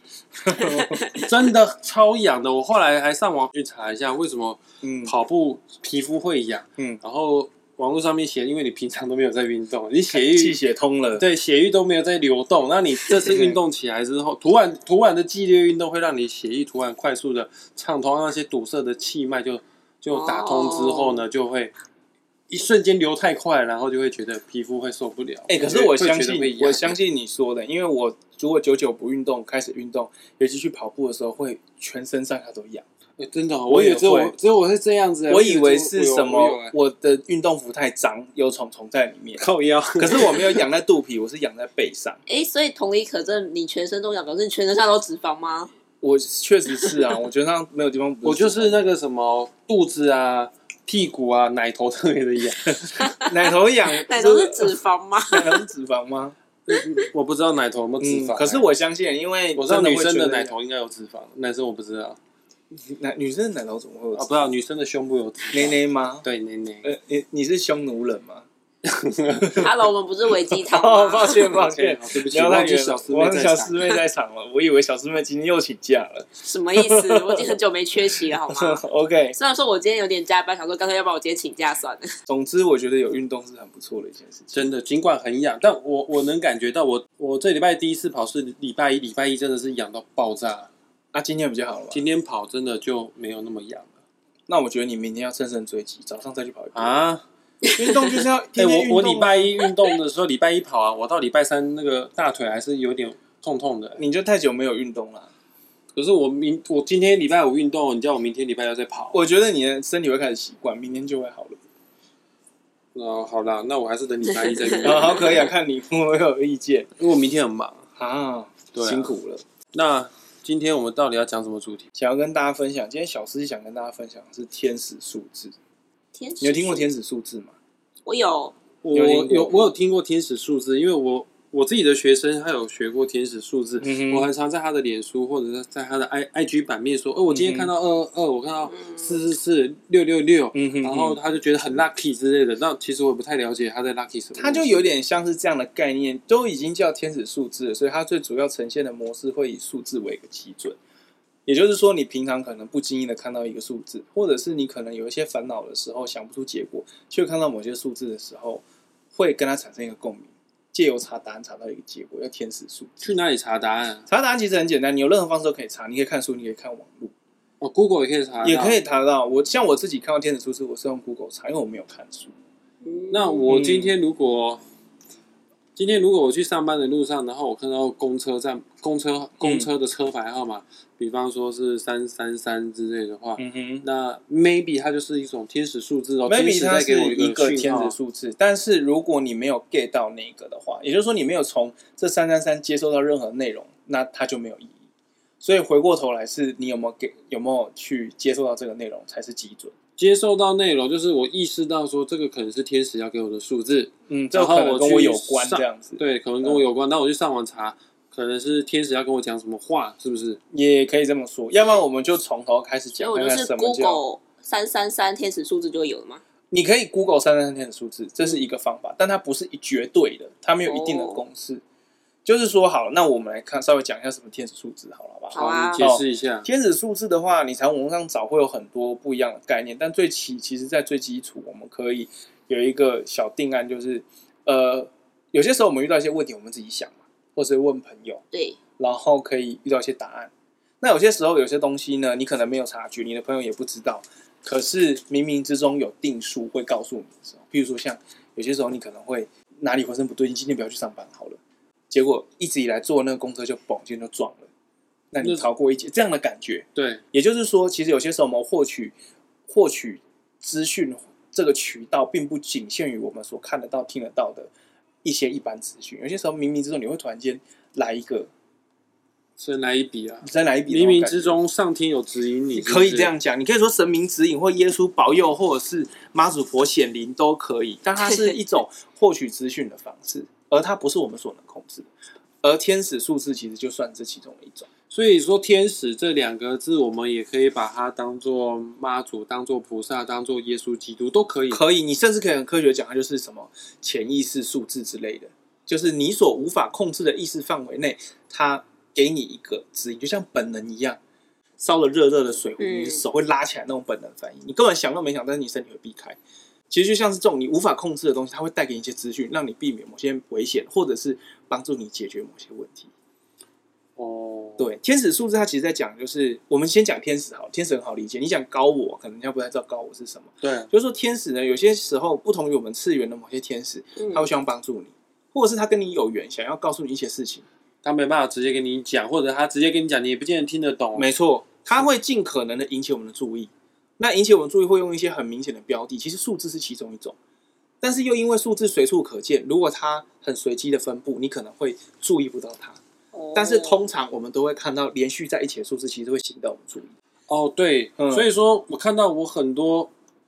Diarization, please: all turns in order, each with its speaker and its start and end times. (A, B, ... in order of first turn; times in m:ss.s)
0:00.4-0:01.0 A
0:01.0-0:10.6 B
0:04.8-0:05.1 A
0:10.1-0:11.2 A
0:11.2-0:21.7 B
0:20.1-0:21.2 C
0:22.5-0:27.0 B
0:25.5-0:32.8 A
0:33.2-0:36.8 B
0:33.7-0:34.3 A
0:35.3-0:39.4 A
0:39.4-0:40.6 B
0:40.0-0:42.2 A
0:42.3-0:45.7 C
0:46.0-0:48.8 A
0:48.2-0:53.0 B
0:52.7-0:56.4 A
0:53.9-0:55.6 C
0:56.7-0:58.7 B
0:58.0-1:00.6 A
0:59.6-1:02.2 B
1:02.7-1:04.3 A
1:04.1-1:06.9 B
1:05.5-1:06.3 A
1:06.8-1:08.5 A
1:08.8-1:09.7 B
1:09.4-1:09.7 A
1:09.6-1:11.6 C
1:10.7-1:17.6 A
1:11.4-1:14.0 B
1:16.4-1:18.8 C
1:18.4-1:19.4 A
1:19.4-1:22.1 C
1:22.3-1:24.7 A
1:24.5-1:30.7 B
1:31.1-1:32.0 A
1:31.9-1:33.9 B
1:34.5-1:37.0 A
1:36.7-1:37.2 B
1:37.7-1:39.4 A
1:38.6-1:44.0 B
1:44.0-1:45.3 A
1:46.0-1:49.2 B
1:49.1-1:51.6 A
1:52.9-1:55.4 B
1:54.8-1:56.9 A
1:57.0-1:57.9 B
1:58.0-1:59.4 A
1:58.8-1:59.1 B
1:59.7-2:01.8 B
2:02.0-2:05.5 A
2:06.2-2:06.9 C
2:06.4-2:07.5 A
2:08.0-2:08.6 C
2:08.8-2:24.9 B
2:08.9-2:09.7 A
2:13.8-2:14.3 A
2:17.3-2:17.7 A
2:20.5-2:21.2 A
2:24.4-2:30.8 A
2:31.5-2:38.6 A
2:39.1-2:43.1 A
2:43.0-2:44.1 B
2:44.1-2:47.1 A
2:47.6-2:48.8 B
2:48.4-2:52.3 A
2:52.8-2:53.5 C
2:53.1-2:54.6 B
2:53.5-2:53.9 A
2:55.8-3:08.0 B
2:59.4-2:59.7 A
3:03.4-3:03.8 A
3:06.3-3:14.8 A
3:15.4-3:19.7 A
3:20.0-3:30.4 B
3:24.1-3:26.6 A
3:30.5-3:34.0 A
3:33.0-3:36.2 C
3:36.5-3:41.6 A
3:40.7-3:41.2 C
3:42.2-3:58.2 A
3:45.3-3:45.8 C
3:45.4-3:46.5 B
3:58.3-3:58.6 C
3:58.8-4:11.4 A
4:11.9-4:14.5 A
4:15.1-4:19.0 A
4:15.2-4:15.5 B
4:16.8-4:17.0 B
4:19.5-4:24.5 A
4:25.0-4:28.3 A
4:29.4-4:33.1 B
4:30.2-4:31.4 A
4:32.6-4:41.9 A
4:42.4-4:44.7 A
4:44.9-4:51.6 B
4:51.5-5:01.0 A
5:01.6-5:06.2 A
5:02.6-5:03.0 C
5:06.7-5:12.9 A
5:14.0-5:14.7 B
5:14.6-5:27.4 A
5:20.4-5:20.7 B
5:24.0-5:24.3 C
5:27.8-5:31.1 B
5:31.0-5:37.2 A
5:37.8-5:42.8 A
5:43.1-5:43.8 C
5:43.4-5:46.9 A
5:47.3-5:49.9 B
5:48.0-5:48.3 A